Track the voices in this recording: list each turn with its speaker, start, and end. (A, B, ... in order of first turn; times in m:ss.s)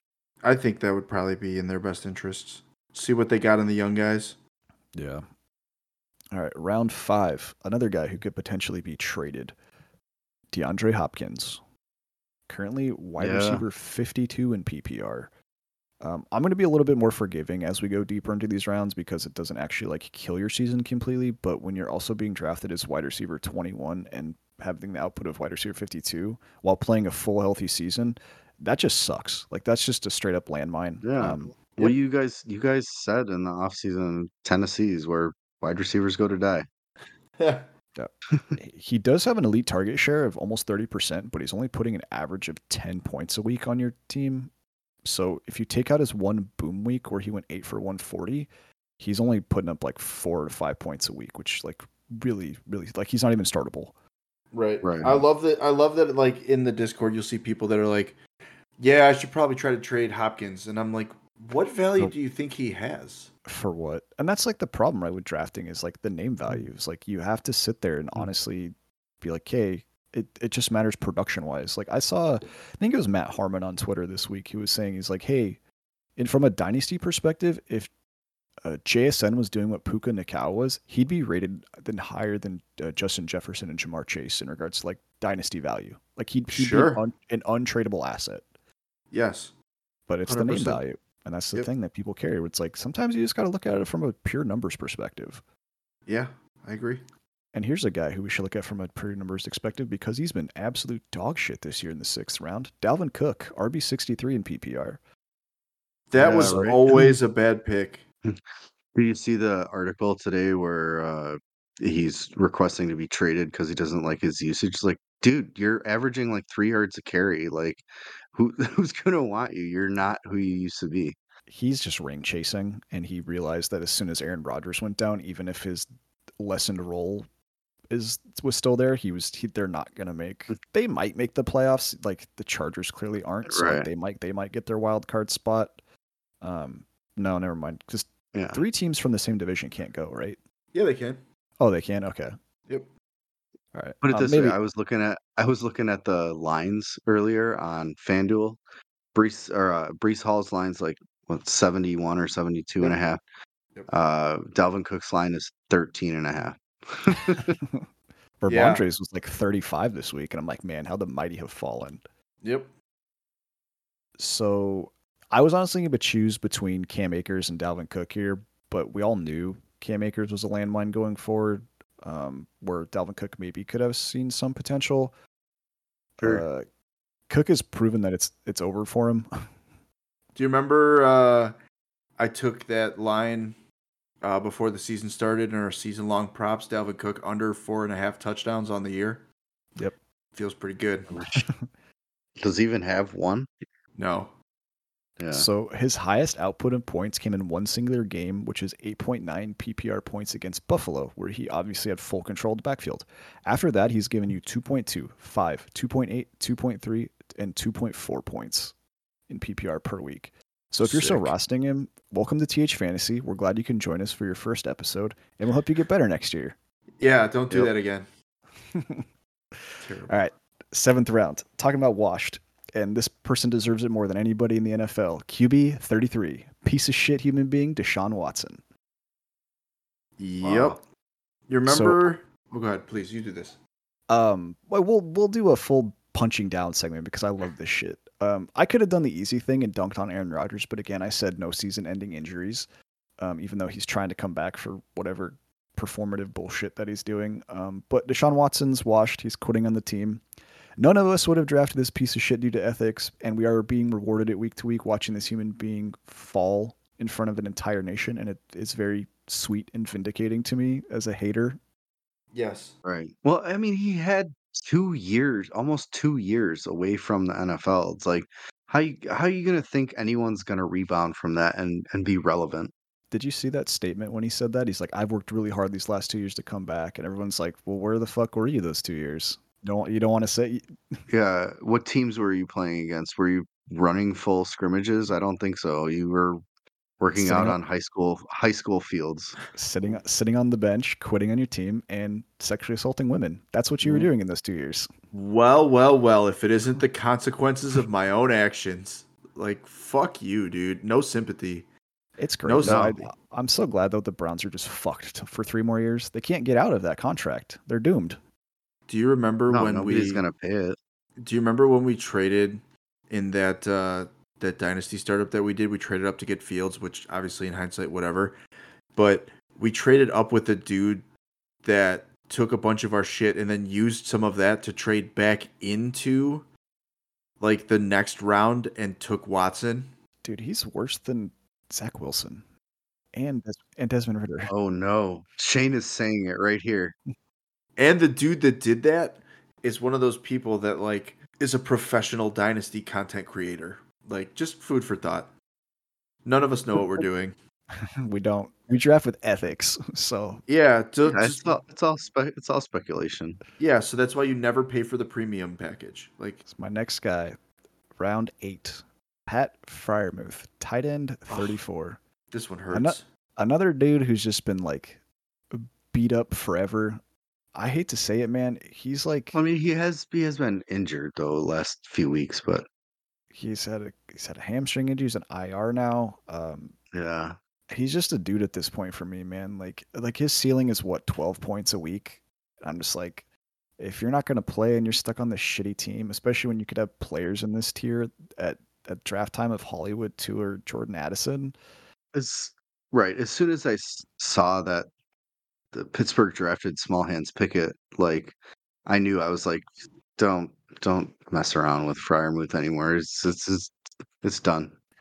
0:00.4-0:04.4 A
0:05.0-0:05.3 B
0:06.3-0:09.6 B
0:10.5-0:11.6 B
0:12.5-0:15.3 B
0:13.2-0:13.6 C
0:16.0-0:31.5 B
0:31.0-0:36.7 C
0:37.4-0:37.7 A
0:38.0-0:44.5 B
0:45.0-0:53.9 B
0:54.5-0:58.2 A
0:54.8-0:55.2 C
0:58.8-1:03.3 A
1:03.5-1:15.6 B
1:16.2-1:17.9 B
1:18.6-1:28.5 B
1:26.5-1:27.0 A
1:29.1-1:29.6 A
1:30.1-1:35.4 B
1:30.3-1:30.8 A
1:36.1-1:37.0 A
1:37.5-1:45.0 B
1:46.1-1:48.0 A
1:46.2-1:47.1 C
1:48.3-2:01.2 C
2:01.5-2:07.3 B
2:07.9-2:15.8 B
2:13.5-2:13.9 C
2:16.4-2:20.4 B
2:18.3-2:18.6 C
2:20.7-2:21.2 A
2:21.6-2:22.4 B
2:23.7-2:24.6 B
2:24.0-2:28.6 C
2:29.1-2:33.2 C
2:33.9-2:37.6 C
2:38.4-2:42.0 B
2:38.5-2:38.8 A
2:42.4-2:42.7 A
2:44.2-2:55.1 B
2:56.2-2:56.7 B
2:57.3-2:59.3 B
3:00.4-3:01.6 A
3:02.2-3:03.6 A
3:04.2-3:09.2 A
3:10.4-3:11.1 A
3:12.4-3:13.5 C
3:14.0-3:14.4 A
3:15.2-3:15.4 C
3:15.3-3:28.7 B
3:29.3-3:36.6 B
3:30.8-3:31.4 A
3:37.0-3:38.1 A
3:38.7-3:39.0 B
3:39.8-3:40.1 A
3:40.1-3:48.6 B
3:50.2-3:50.8 A
3:50.4-3:50.8 C
3:51.5-3:53.6 A
3:51.7-3:52.0 B
3:54.1-4:02.7 B
4:03.2-4:10.2 B
4:10.8-4:21.6 B
4:22.3-4:22.7 A
4:22.8-4:32.7 C
4:33.1-4:41.0 B
4:41.1-4:46.4 C
4:47.0-4:49.4 C
4:47.2-4:47.6 B
4:49.6-4:54.9 B
4:53.8-4:54.1 C
4:55.1-5:01.7 A
5:02.2-5:08.2 B
5:02.4-5:03.1 A
5:02.6-5:03.0 C
5:08.9-5:10.2 A
5:09.5-5:10.8 C
5:11.2-5:18.4 A
5:19.0-5:21.0 A
5:21.6-5:26.4 A
5:27.4-5:29.9 A
5:30.2-5:32.4 B
5:33.1-5:34.5 B
5:34.5-5:37.0 C
5:37.8-5:45.3 A
5:46.2-5:47.4 A
5:48.0-5:50.4 B
5:50.5-5:51.6 A
5:51.1-5:53.4 C
5:53.6-5:56.4 A
5:56.4-5:57.4 B
5:58.0-6:02.0 B
6:02.3-6:03.0 A
6:02.7-6:07.0 B
6:07.6-6:09.4 B
6:09.3-6:12.7 C
6:13.3-6:16.8 B
6:16.9-6:17.4 C
6:17.7-6:23.3 B
6:23.8-6:31.6 B
6:32.1-6:34.9 C
6:35.7-6:44.8 C